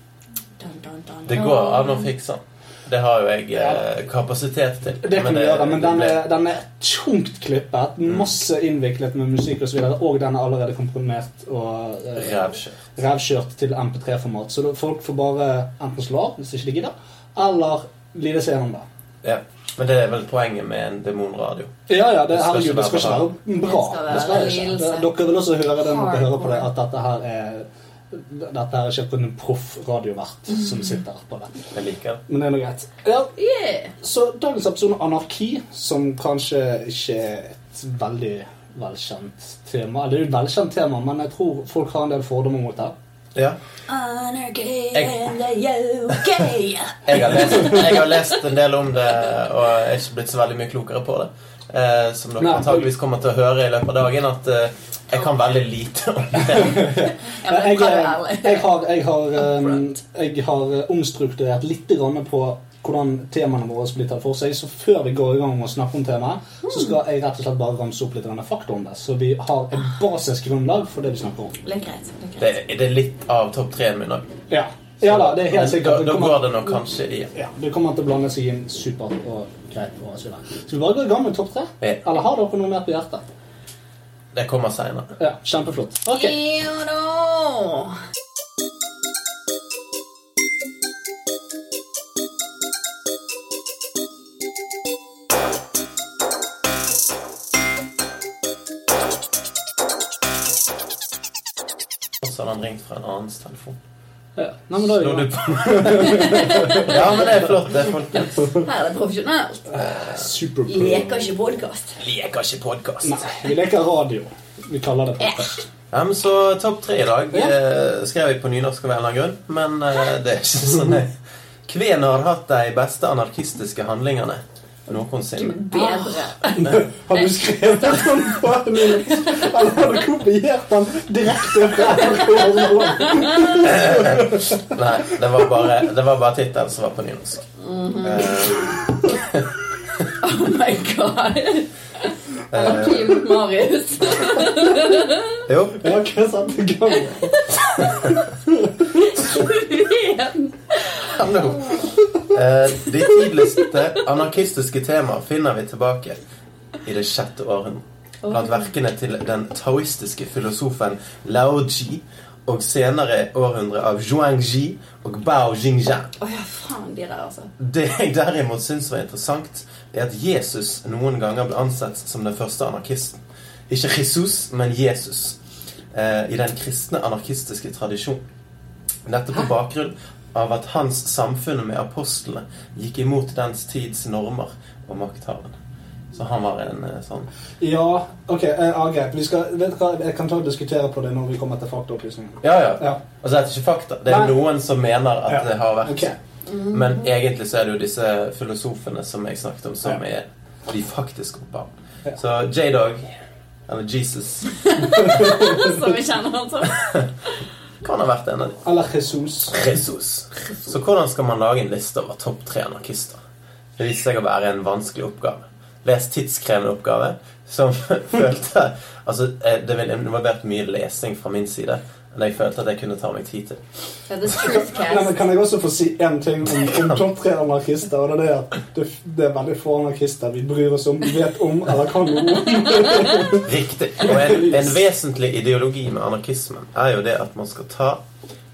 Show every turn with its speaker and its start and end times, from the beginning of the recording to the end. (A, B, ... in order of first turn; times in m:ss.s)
0:00.6-0:02.1 A
0:01.2-0:06.2 B
0:03.5-0:03.8 C
0:05.0-0:12.4 C
0:12.2-0:12.8 B
0:13.0-0:18.8 C
0:19.2-0:21.8 B
0:21.9-0:31.5 C
0:22.3-0:23.3 B
0:23.6-0:25.1 A
0:25.8-0:26.7 A
0:30.6-0:30.8 A
0:31.7-0:32.2 B
0:32.3-0:33.3 C
0:33.4-0:33.9 A
0:34.0-0:42.9 C
0:43.9-0:48.3 A
0:44.9-0:45.2 B
0:47.0-0:57.0 B
0:52.4-0:52.9 C
0:56.5-1:11.5 C
0:57.2-0:58.7 A
0:59.4-0:59.8 A
1:06.6-1:07.0 A
1:11.6-1:12.6 A
1:12.4-1:14.3 B
1:14.5-1:16.6 C
1:15.0-1:17.3 B
1:17.3-1:23.2 C
1:24.3-1:25.1 B
1:25.2-1:26.4 C
1:26.1-1:28.0 A
1:42.2-1:43.8 B
1:44.4-1:47.0 C
1:44.8-1:48.5 B
1:46.0-1:47.4 A
1:48.1-1:49.7 A
1:49.7-1:51.3 C
1:49.8-1:50.3 B
1:50.7-1:52.0 A
1:52.0-1:53.3 B
1:53.0-1:55.6 C
1:55.2-1:55.5 A
1:55.9-2:01.1 B
2:00.7-2:01.0 C
2:01.7-2:05.6 B
2:04.9-2:09.5 A
2:05.7-2:14.5 C
2:11.8-2:13.7 A
2:13.6-2:17.4 B
2:17.6-2:18.7 A
2:18.0-2:19.4 B
2:20.2-2:25.4 A
2:22.5-2:23.2 B
2:25.5-2:25.9 B
2:25.8-2:27.4 C
2:26.9-2:28.2 A
2:28.7-2:29.1 C
2:28.9-2:31.9 A
2:31.1-2:36.2 B
2:33.1-2:33.7 A
2:36.8-2:46.1 B
2:38.2-2:38.7 A
2:46.2-2:47.5 A
2:47.6-2:53.2 B
2:53.7-2:55.4 B
2:55.9-2:58.2 B
2:59.0-3:05.6 B
3:06.1-3:07.3 B
3:07.6-3:13.0 C
3:12.4-3:16.1 B
3:14.1-3:14.4 C
3:15.3-3:16.2 C
3:16.4-3:17.1 A
3:16.7-3:23.1 B
3:23.7-3:25.3 B
3:24.6-3:27.1 A
3:25.3-3:25.6 C
3:27.8-3:28.6 B
3:28.6-3:29.6 C
3:29.5-3:33.2 B
3:33.8-3:43.6 B
3:44.1-3:45.2 A
3:44.6-3:53.4 C
3:46.5-3:47.0 B
3:53.2-3:58.0 B
3:54.0-3:54.7 C